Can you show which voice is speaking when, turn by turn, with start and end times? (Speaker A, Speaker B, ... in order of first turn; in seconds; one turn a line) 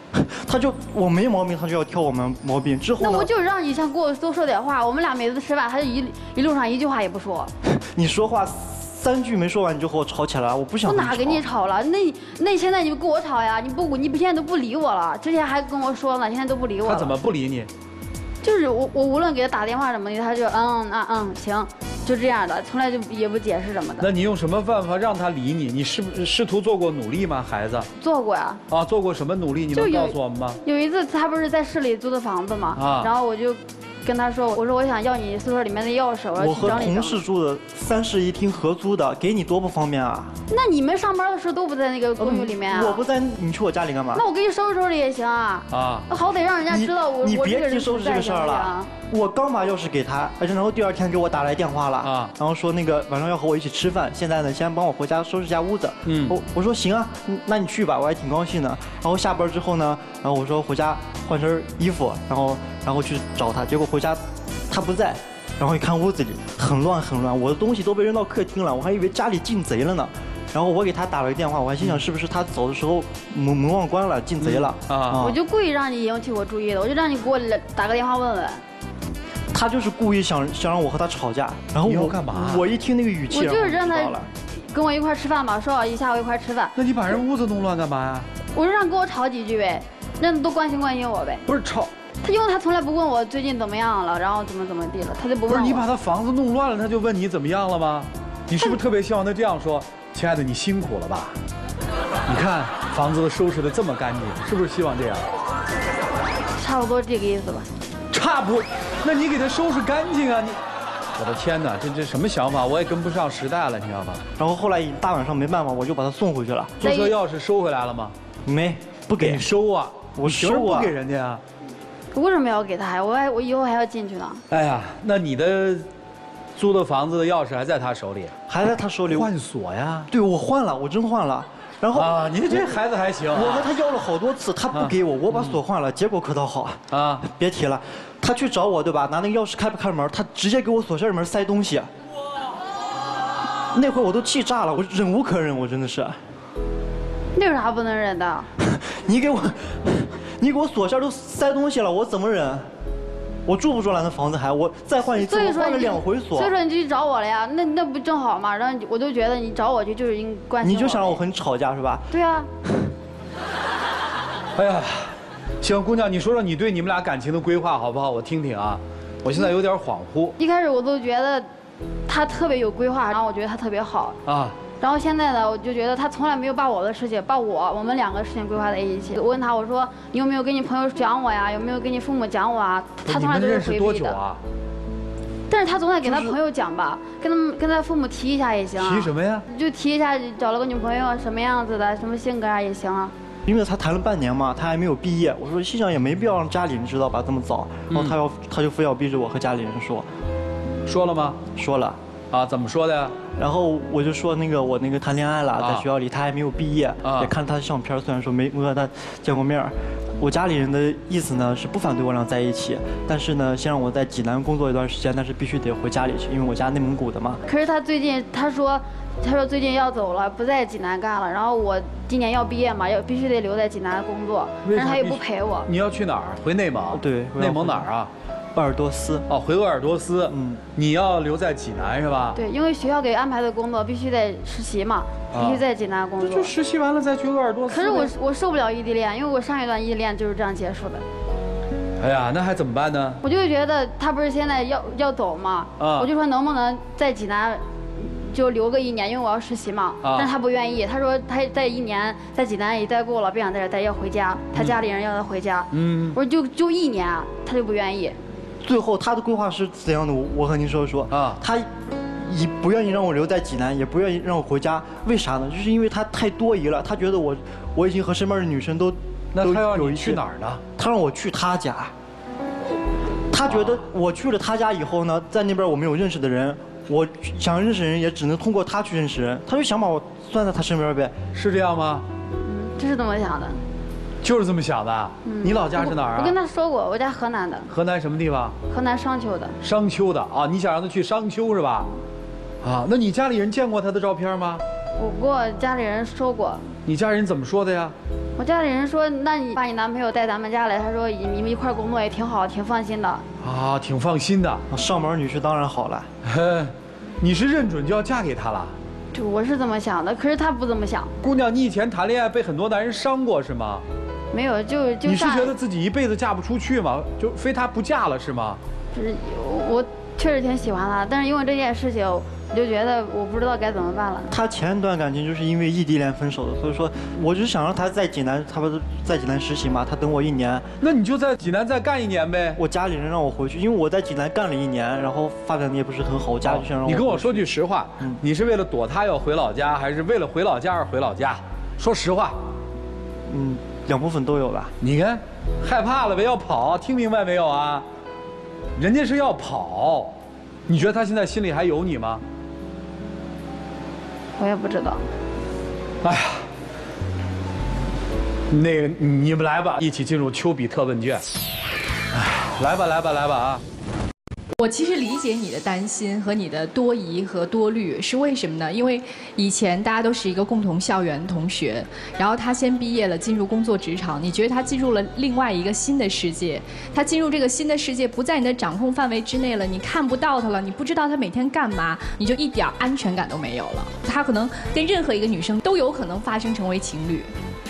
Speaker A: 0.1-3.3
Speaker B: 3.0-7.5
Speaker A: 7.7-11.4
Speaker B: 10.8-17.2
Speaker C: 16.8-17.7
Speaker B: 18.4-24.1
Speaker C: 24.0-27.9
Speaker B: 28.0-28.6
Speaker C: 28.7-30.6
Speaker B: 29.7-37.2
Speaker C: 32.8-33.1
Speaker A: 36.4-40.4
Speaker B: 40.5-43.0
Speaker A: 42.2-44.2
Speaker B: 44.1-48.9
Speaker C: 45.7-46.1
Speaker A: 46.7-75.3
Speaker C: 52.0-52.3
Speaker C: 56.1-56.4
Speaker C: 74.4-75.2
Speaker B: 75.2-78.6
Speaker A: 79.5-84.3
Speaker C: 81.8-82.7
Speaker B: 83.3-86.8
Speaker C: 86.8-88.3
Speaker B: 88.5-91.4
Speaker C: 91.5-91.9
Speaker B: 92.2-95.9
Speaker C: 95.5-101.4
Speaker C: 102.3-105.3
Speaker B: 106.6-107.7
Speaker C: 108.1-110.6
Speaker C: 111.2-114.2
Speaker A: 114.4-116.8
Speaker C: 116.8-118.1
Speaker B: 116.8-117.2
Speaker A: 118.5-119.5
Speaker C: 119.2-121.4
Speaker A: 120.2-120.9
Speaker B: 122.1-124.4
Speaker C: 124.5-125.9
Speaker C: 126.6-128.3
Speaker A: 128.5-129.3
Speaker C: 129.1-130.1
Speaker A: 130.1-132.2
Speaker C: 131.9-133.7
Speaker A: 133.3-141.9
Speaker C: 134.7-135.6
Speaker C: 136.9-137.2
Speaker A: 143.7-146.2
Speaker B: 147.3-148.5
Speaker A: 148.6-152.7
Speaker A: 153.5-156.5
Speaker B: 155.2-161.2
Speaker A: 160.6-162.1
Speaker B: 162.1-162.5
Speaker C: 164.6-170.4
Speaker B: 170.4-171.5
Speaker B: 172.1-174.2
Speaker C: 174.3-174.6
Speaker B: 174.7-184.2
Speaker C: 183.0-184.4
Speaker B: 185.5-193.2
Speaker C: 186.0-186.4
Speaker C: 188.8-189.4
Speaker A: 193.4-200.1
Speaker C: 197.9-198.2
Speaker C: 200.9-201.4
Speaker A: 201.6-202.0
Speaker C: 202.3-203.2
Speaker A: 203.3-217.4
Speaker C: 205.6-205.9
Speaker C: 207.0-207.3
Speaker B: 217.5-225.7
Speaker C: 224.6-228.1
Speaker A: 226.9-227.9
Speaker A: 228.5-229.3
Speaker C: 229.3-232.4
Speaker A: 230.3-230.6
Speaker B: 232.3-236.5
Speaker C: 235.3-235.6
Speaker C: 236.2-238.1
Speaker B: 237.7-241.1
Speaker C: 242.0-243.2
Speaker B: 243.2-258.2
Speaker C: 245.8-246.1
Speaker C: 250.0-250.3
Speaker C: 254.6-254.8
Speaker C: 255.7-256.2
Speaker A: 258.6-270.2
Speaker C: 261.1-261.4
Speaker C: 269.3-270.6
Speaker A: 270.8-271.9
Speaker A: 273.3-281.2
Speaker C: 273.5-273.8
Speaker C: 281.3-282.1
Speaker B: 282.4-283.6
Speaker C: 284.2-286.4
Speaker B: 285.2-287.7
Speaker C: 287.7-288.6
Speaker B: 288.7-289.6
Speaker C: 289.6-291.9
Speaker C: 292.6-294.6
Speaker B: 295.0-296.7
Speaker C: 296.9-297.9
Speaker B: 298.4-303.2
Speaker C: 303.4-304.6
Speaker A: 304.7-306.1
Speaker C: 306.2-308.8
Speaker B: 309.1-311.1
Speaker C: 311.2-313.9
Speaker B: 314.3-315.6
Speaker C: 315.0-318.6
Speaker B: 318.9-324.3
Speaker A: 324.3-330.7
Speaker C: 330.8-332.6
Speaker A: 332.6-338.2
Speaker C: 336.4-342.4
Speaker A: 343.3-344.7
Speaker C: 344.8-347.9
Speaker C: 348.8-350.1
Speaker C: 350.7-352.2
Speaker B: 354.4-355.1
Speaker C: 356.0-356.4
Speaker C: 358.5-361.2
Speaker C: 362.1-363.6
Speaker D: 364.5-387.3